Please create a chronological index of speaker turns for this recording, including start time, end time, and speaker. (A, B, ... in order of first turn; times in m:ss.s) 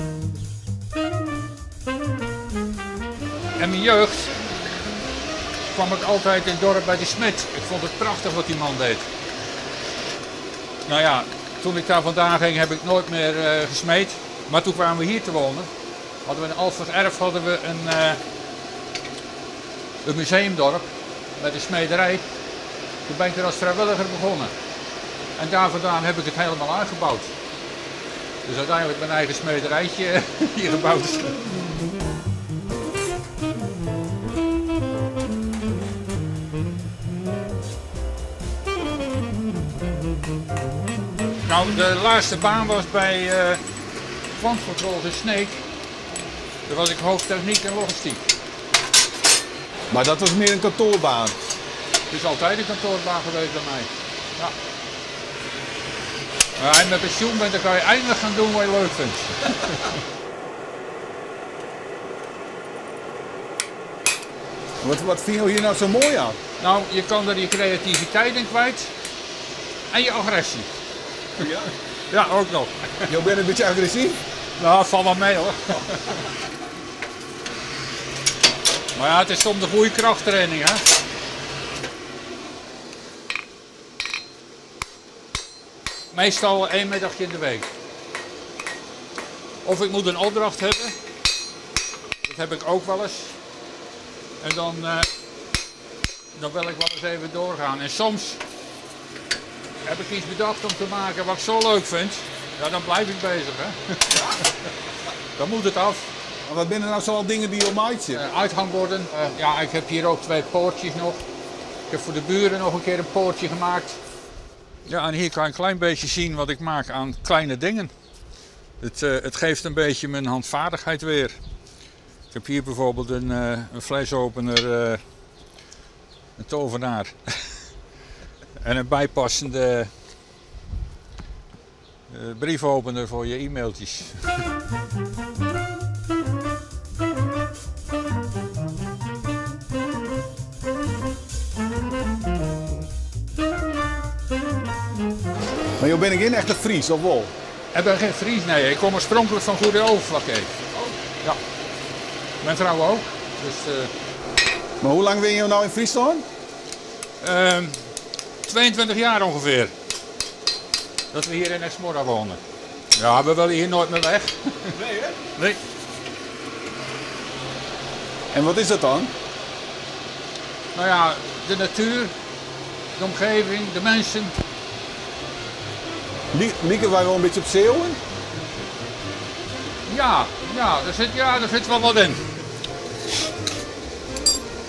0:03.6-0:04.4 A
0:05.7-0:09.1 A
0:10.9-0:15.7 A
0:16.2-0:18.2 A
0:20.0-0:22.2 A
0:23.0-0:24.5 A
0:25.4-0:27.3 A
0:28.4-0:31.4 A
0:41.4-0:43.6 A
0:44.3-0:45.6 A
0:46.7-0:48.3 A
0:49.9-0:51.4 B
0:52.1-0:54.5 A
0:56.6-0:59.9 A
1:04.8-1:06.4 B
1:06.6-1:08.9 A
1:09.9-1:10.7 A
1:11.4-1:11.7 B
1:12.1-1:13.1 A
1:13.1-1:14.2 B
1:14.6-1:16.2 A
1:18.9-1:20.8 A
1:26.1-1:27.7 A
1:29.6-1:30.9 A
1:32.2-1:33.4 A
1:34.4-1:35.1 A
1:36.3-1:38.4 A
1:39.8-1:44.5 A
1:45.4-1:46.1 A
1:46.4-1:48.2 B
1:48.1-1:51.2 A
1:51.9-1:54.0 A
1:54.8-1:57.9 A
1:58.8-2:01.4 A
2:02.3-2:05.0 A
2:06.4-2:07.6 A
2:08.6-2:09.9 A
2:12.1-2:14.4 A
2:25.8-2:27.3 B
2:27.7-2:30.5 A
2:32.4-2:33.9 A
2:34.8-2:36.2 B
2:37.2-2:37.8 A
2:38.4-2:39.7 A
2:41.1-2:42.4 A
2:42.9-2:44.8 A
2:44.7-2:45.2 B
2:45.3-2:45.6 A
2:48.3-2:49.1 B
2:50.7-2:52.1 A
2:53.0-2:54.4 A
2:56.3-2:58.0 B
2:59.8-3:02.2 A